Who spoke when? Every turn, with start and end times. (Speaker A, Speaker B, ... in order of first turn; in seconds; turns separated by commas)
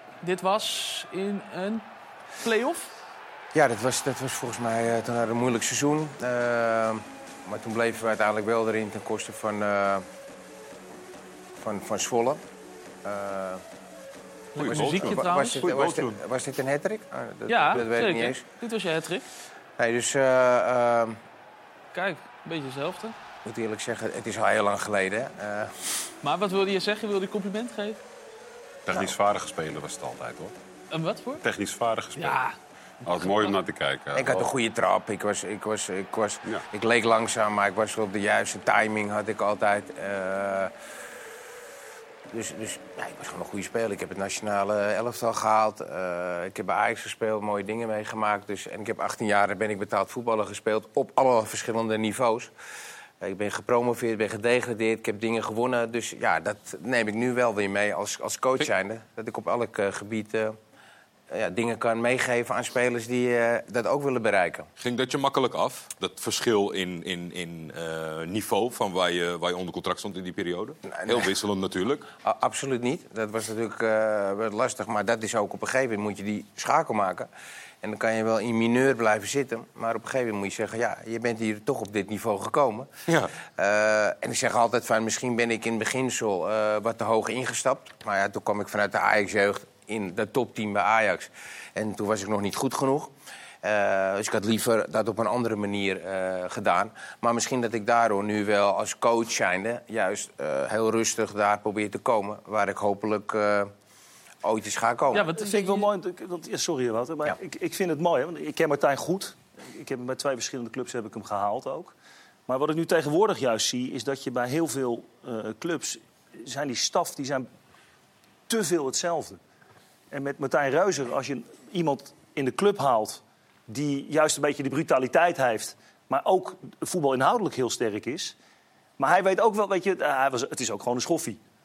Speaker A: 0.2-1.9, Speaker A: 2.4-2.9, Speaker B: 3.5-10.1, Speaker B: 11.6-12.4, Speaker B: 13.0-13.6, Speaker A: 14.6-15.6, Speaker C: 14.6-16.2, Speaker B: 14.6-18.4, Speaker A: 17.5-19.3, Speaker B: 19.8-21.2, Speaker A: 21.9-23.1, Speaker B: 23.4-25.9, Speaker A: 26.2-28.0, Speaker D: 28.9-30.6, Speaker A: 30.9-31.4, Speaker D: 31.4-32.4, Speaker A: 32.2-32.6, Speaker D: 33.0-34.5, Speaker A: 33.1-33.6, Speaker B: 34.1-40.7, Speaker B: 42.3-52.5, Speaker B: 53.2-60.6, Speaker B: 61.3-64.7, Speaker C: 64.8-72.0, Speaker B: 71.0-71.3, Speaker B: 72.2-77.3, Speaker B: 77.8-82.9, Speaker B: 83.6-103.7, Speaker B: 104.4-105.3, Speaker A: 105.1-105.9, Speaker E: 105.4-111.9, Speaker E: 112.5-117.5, Speaker E: 118.5-119.4, Speaker E: 120.1-128.3, Speaker E: 129.0-131.4